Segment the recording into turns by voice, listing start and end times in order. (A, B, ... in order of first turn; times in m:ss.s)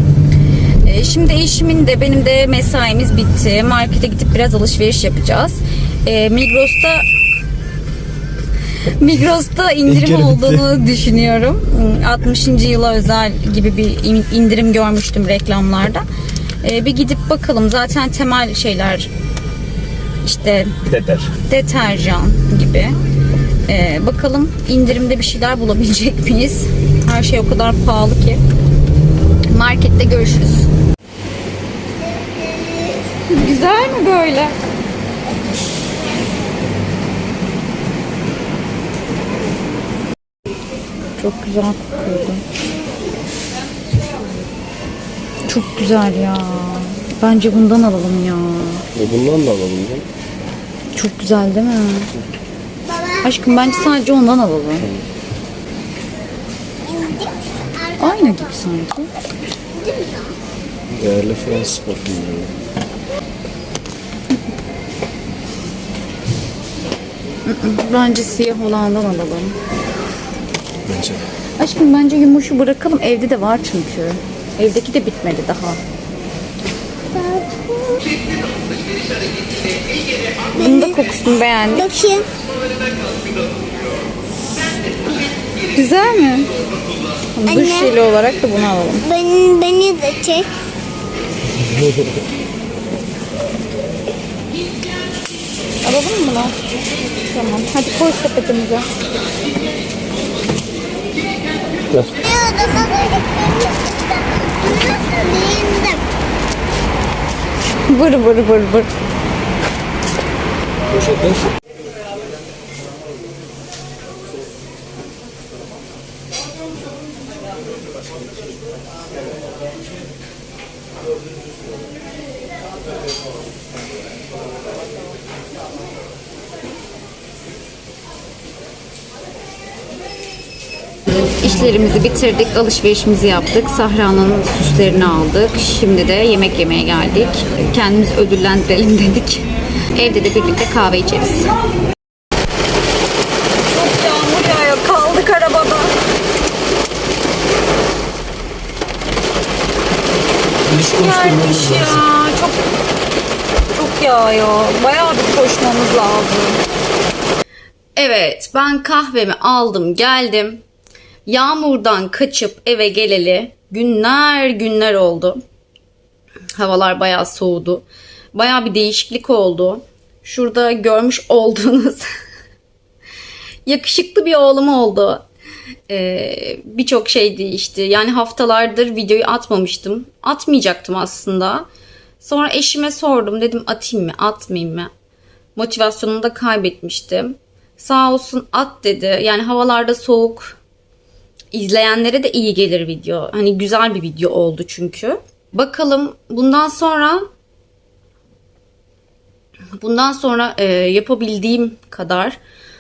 0:00.8-0:07.0 A
0:09.0-0:16.0 A
0:09.9-0:10.6 B
0:16.6-0:19.1 A
0:20.2-0:20.7 A
0:20.9-0:21.3 B
0:21.5-0:23.0 A
0:23.7-0:28.4 A
0:29.5-0:30.7 A
0:32.2-0:33.0 C
0:33.3-0:34.6 A
0:41.2-0:42.4 A
0:45.5-0:48.8 A
0:48.9-0:50.1 B
0:50.9-0:52.1 A
0:52.8-0:53.2 C
0:53.2-0:54.9 A
0:56.8-0:58.4 C
0:58.0-0:59.1 A
0:59.7-1:00.3 C
1:00.9-1:02.5 B
1:07.4-1:09.6 A
1:10.9-1:11.2 B
1:11.6-1:15.8 A
1:17.1-1:18.1 C
1:20.6-1:21.0 C
1:20.6-1:21.9 A
1:21.8-1:22.3 C
1:25.7-1:26.5 A
1:27.3-1:29.1 A
1:27.5-1:27.9 C
1:29.0-1:30.5 C
1:35.8-1:36.5 A
1:37.3-1:38.9 A
1:41.9-1:42.2 B
1:42.2-1:46.0 C
1:47.9-1:48.9 A
1:50.9-1:51.4 B
2:11.4-2:21.5 A
2:23.6-2:25.9 A
2:30.6-2:32.0 B
2:30.8-2:32.6 A
2:33.7-2:36.6 A
2:38.0-2:40.6 A
2:41.2-2:45.4 A
2:46.6-2:52.1 A
2:53.6-2:55.3 A
2:55.9-3:01.7 A
3:02.2-3:04.9 A
3:05.6-3:10.6 A
3:11.5-3:17.2 A
3:19.8-3:22.4 A